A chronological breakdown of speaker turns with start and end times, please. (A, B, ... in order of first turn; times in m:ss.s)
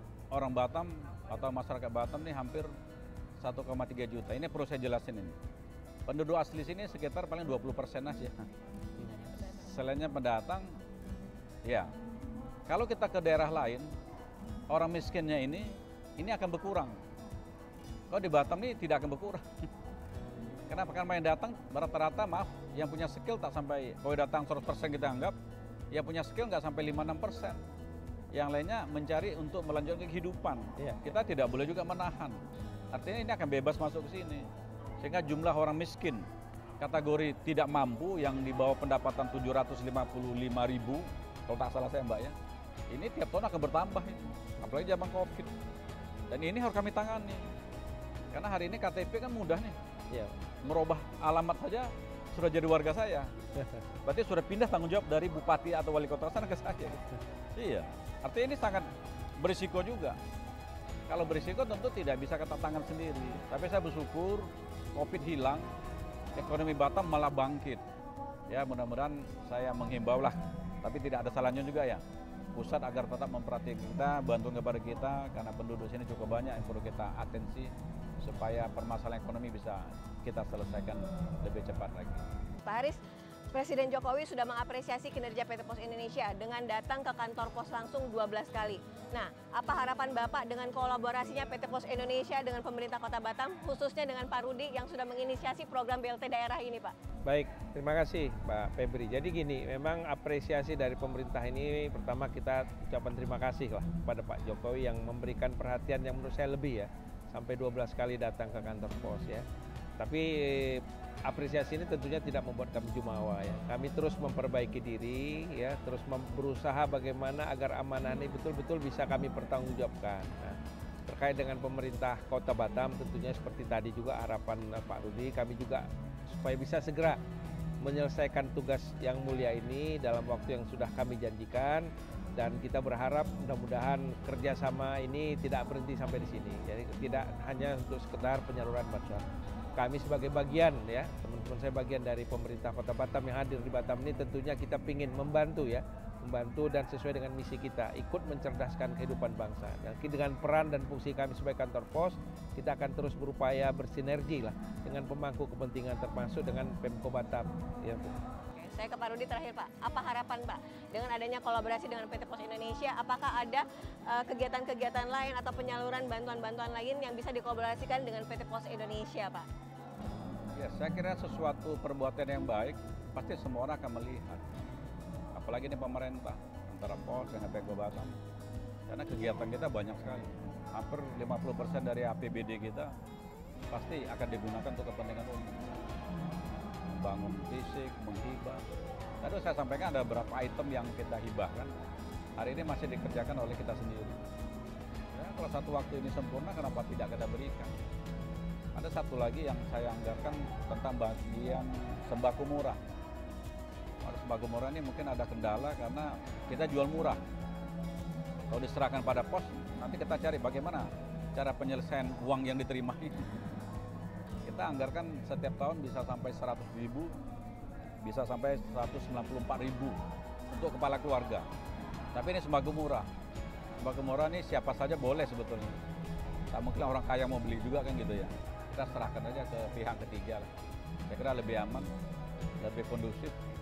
0:00.3-0:02.7 A
0:03.4-0:05.4 A
0:06.1-0:08.4 A
0:09.0-0:09.3 B
0:09.3-0:10.8 A
0:11.6-0:11.9 A
0:12.7-0:13.9 A
0:14.7-0:17.0 A
0:18.1-0:19.5 A
0:20.7-0:25.4 A
0:25.9-0:27.6 A
0:28.3-0:32.4 A
0:30.8-0:31.1 B
0:32.9-0:34.5 A
0:35.0-0:36.3 A
0:36.8-0:42.4 A
0:42.9-0:45.5 A
0:46.3-0:47.5 A
0:48.3-0:49.8 A
0:50.1-0:50.4 B
0:50.6-0:53.3 A
0:54.0-1:00.2 A
1:01.1-1:05.7 A
1:06.4-1:07.8 A
1:08.5-1:12.0 A
1:12.5-1:22.2 A
1:22.6-1:23.0 C
1:23.5-1:36.9 C
1:37.2-1:49.4 B
1:50.0-2:07.2 B
2:07.8-2:19.2 B
2:19.8-2:38.1 B
2:38.5-2:49.5 C
2:50.5-2:54.4 A
2:55.3-2:58.2 A
2:58.9-3:02.9 A
3:03.7-3:05.8 A
3:06.9-3:08.6 A
3:09.2-3:11.7 A
3:12.4-3:14.2 A
3:15.1-3:17.7 A
3:18.8-3:22.8 A
3:24.0-3:27.2 A
3:28.5-3:33.2 A
3:34.4-3:37.1 A
3:38.0-3:40.0 A
3:40.5-3:41.5 A
3:42.1-3:43.1 A
3:43.8-3:45.8 A
3:46.5-3:50.5 A
3:51.1-3:51.9 A
3:52.6-3:53.3 A